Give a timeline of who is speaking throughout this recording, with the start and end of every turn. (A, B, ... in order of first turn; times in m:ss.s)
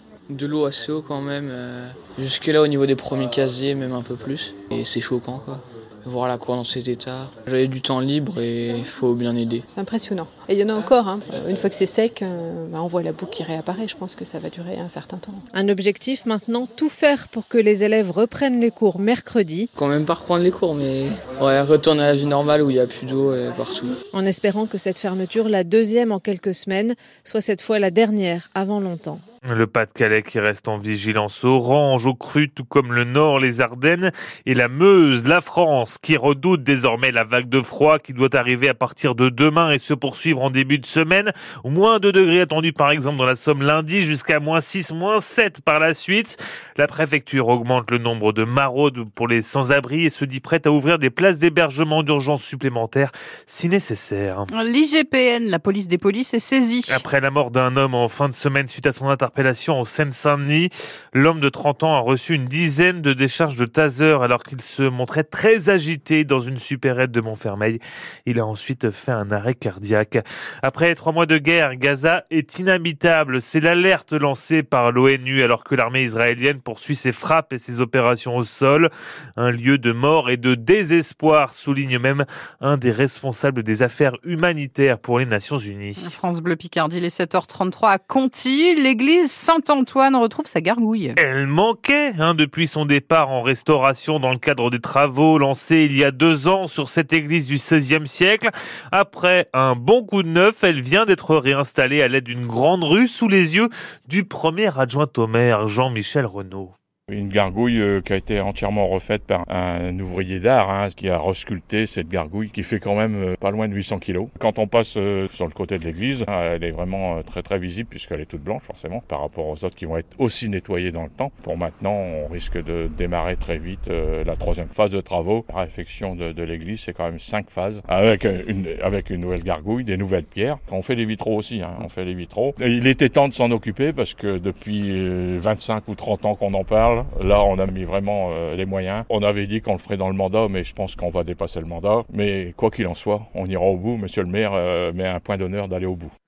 0:00.3-0:09.6 A
0:09.7-0:15.4 B
0:15.5-0:19.7 C
0:19.7-0:24.0 A
0:24.1-0:29.2 C
0:29.4-0:54.5 D
0:54.5-0:57.0 E
0:56.9-1:26.1 D
1:26.0-1:31.2 E
1:31.2-1:46.7 D
1:47.1-2:26.1 F